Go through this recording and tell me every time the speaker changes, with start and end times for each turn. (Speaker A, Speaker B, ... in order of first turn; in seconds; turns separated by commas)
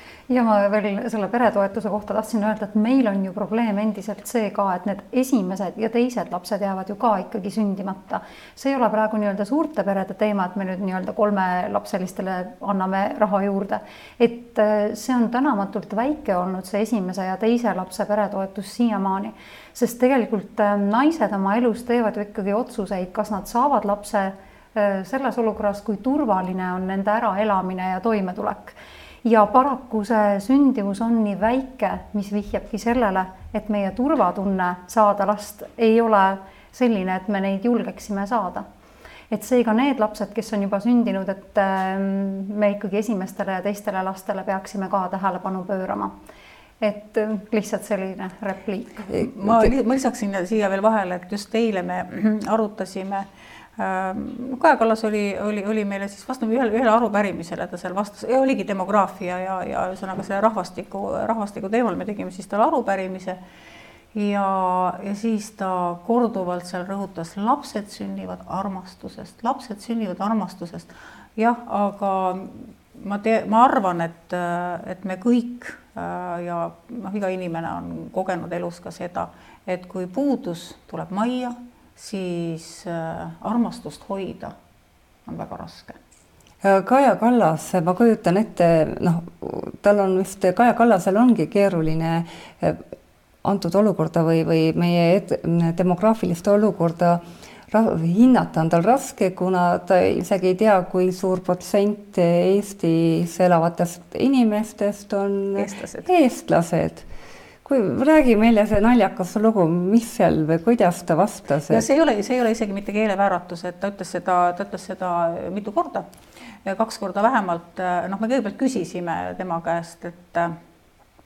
Speaker A: 0.3-38.7, Speaker A: 39.3-46.1, Speaker A: 46.8-49.1, Speaker B: 49.2-53.3, Speaker B: 53.8-63.4, Speaker B: 64.1-84.5, Speaker B: 85.3-86.0, Speaker C: 86.6-92.8, Speaker C: 93.4-107.1, Speaker B: 105.6-106.1, Speaker C: 107.7-111.8, Speaker B: 111.7-116.1, Speaker B: 116.7-120.5